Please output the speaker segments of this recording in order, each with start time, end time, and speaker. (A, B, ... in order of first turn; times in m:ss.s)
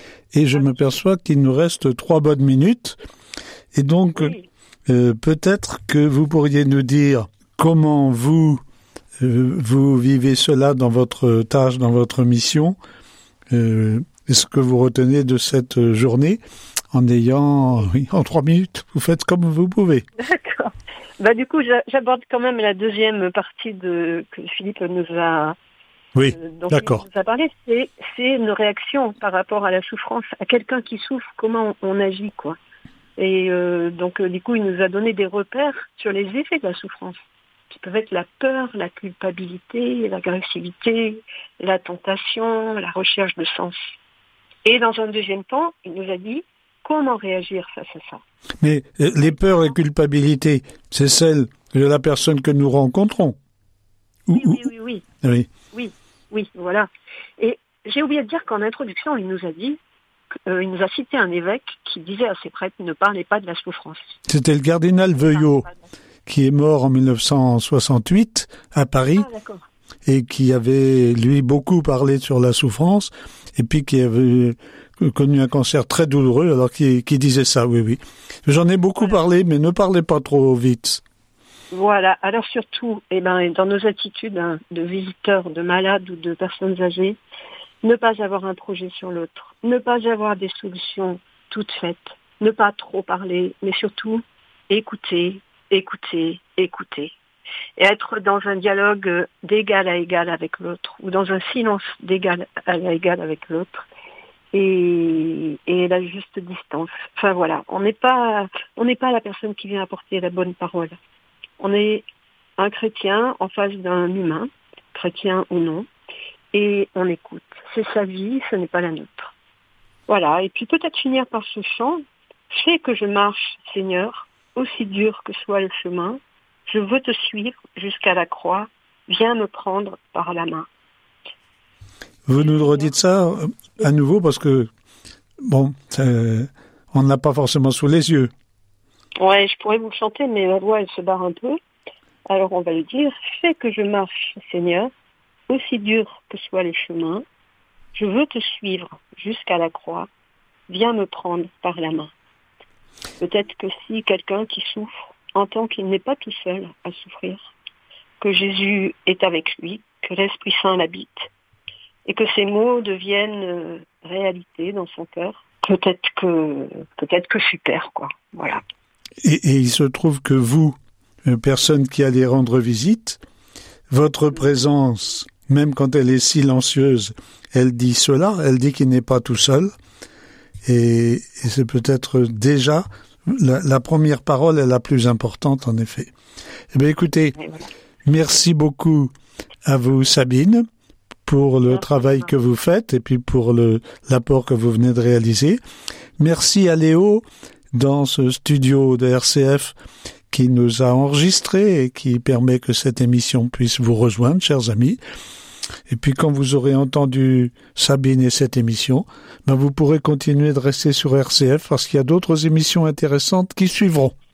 0:00.3-0:03.0 A
0:00.6-0:00.9 B
0:03.7-0:04.4 A
0:04.2-0:04.5 B
0:04.9-0:08.6 A
0:09.2-0:12.8 A
0:13.5-0:16.4 A
0:16.9-0:20.0 A
0:20.2-0:25.6 B
0:26.2-0:27.0 A
0:26.3-0:32.6 B
0:33.2-0:37.2 B
0:37.7-0:43.9 B
0:44.6-0:48.2 B
0:48.6-0:53.4 A
0:49.2-0:49.6 B
0:54.3-0:54.7 A
0:54.3-0:55.0 B
0:55.2-0:55.5 A
0:55.7-0:59.8 B
1:00.5-1:04.2 B
1:04.3-1:05.7 A
1:05.4-1:05.7 B
1:06.3-1:09.3 A
1:09.2-1:09.6 B
1:10.1-1:21.0 A
1:21.7-1:27.2 B
1:27.8-1:37.1 B
1:37.8-1:43.9 B
1:44.5-1:51.0 B
1:51.6-1:52.0 B
1:52.6-1:55.9 B
1:56.5-1:59.3 B
2:00.1-2:10.7 B
2:12.3-2:14.7 A
2:12.4-2:12.9 B
2:15.5-2:18.3 A
2:19.2-2:21.6 B
2:22.3-2:24.9 B
2:25.5-2:27.2 B
2:28.0-2:30.1 B
2:30.7-2:32.1 B
2:33.2-2:37.5 B
2:38.2-2:41.3 B
2:42.1-2:48.6 B
2:49.2-2:53.2 A
2:53.9-2:59.7 A
3:00.7-3:06.1 A
3:06.7-3:07.4 A
3:07.4-3:07.7 B
3:08.0-3:09.1 A
3:09.7-3:10.6 A
3:11.3-3:15.6 A
3:11.7-3:12.3 B
3:16.2-3:19.8 A
3:20.3-3:25.0 A
3:25.9-3:34.1 A